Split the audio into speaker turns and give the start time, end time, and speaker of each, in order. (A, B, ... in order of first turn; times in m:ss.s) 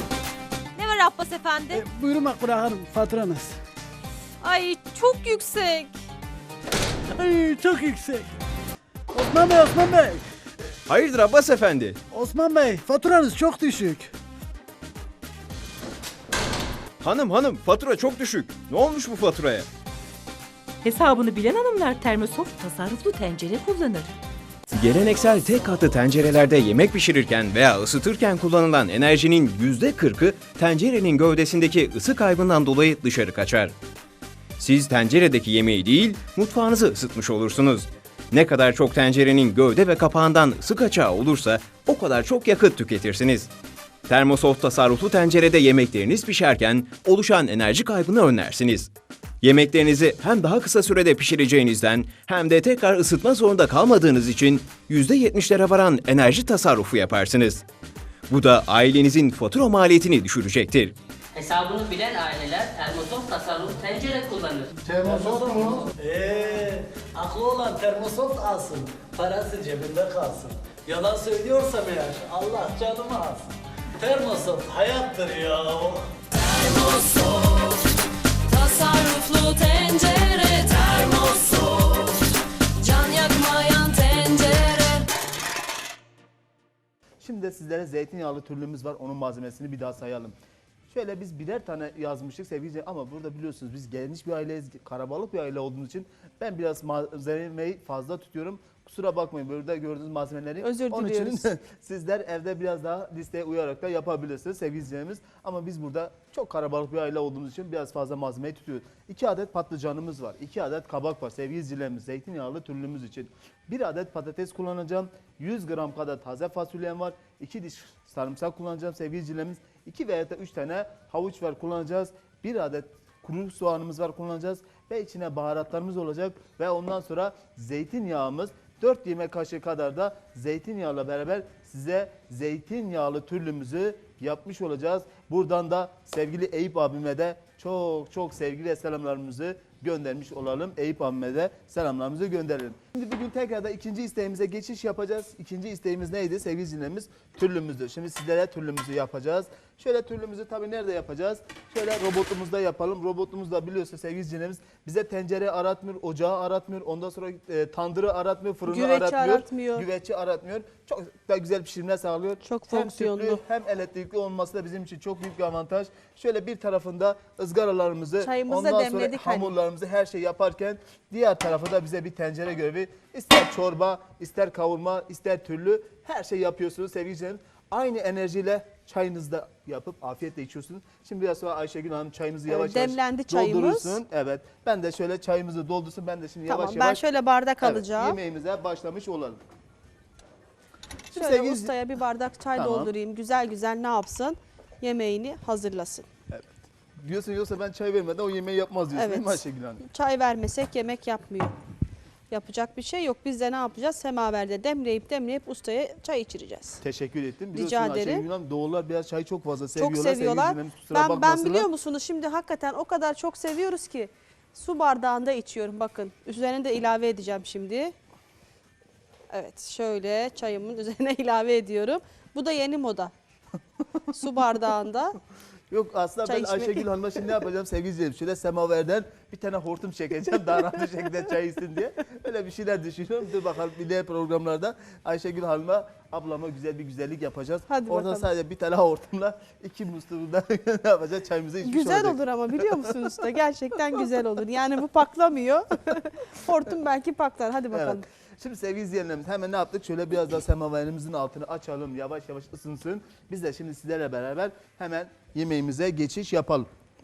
0:00.7-0:01.8 A
0:01.7-0:03.6 B
0:04.4-0:05.9 A
0:07.1-0:08.3 B
0:09.1-0:10.2 B
0:10.9-0:12.0 C
0:12.1-0:14.1 B
0:17.0-0:19.7 C
0:20.8-0:24.1 D
0:24.7-0:33.7 C
0:34.6-0:43.5 C
0:44.1-0:48.9 C
0:49.4-0:57.6 C
0:58.3-1:00.9 C
1:01.3-1:04.7 E
1:04.9-1:16.1 B
1:16.3-1:25.0 F
1:27.2-1:30.4 G
1:30.9-3:07.0 G
1:40.6-1:41.4 H
2:38.7-2:39.9 H
2:42.4-2:43.4 H
2:48.2-2:49.5 H
3:02.5-3:04.0 H
3:06.5-3:08.2 H
3:07.6-3:09.4 G
3:11.1-3:11.7 G
3:11.1-3:16.1 H
3:12.6-3:12.9 G
3:16.3-3:19.8 G
3:18.9-3:21.6 H
3:22.3-3:26.8 H
3:26.8-3:31.7 G
3:27.5-3:28.2 H
3:29.7-3:37.9 H
3:39.3-3:43.1 H
3:44.1-3:45.2 H
3:45.7-4:03.0 G
3:46.2-3:46.8 H
3:57.7-3:58.3 H
4:01.6-4:08.0 H
4:07.7-4:16.7 G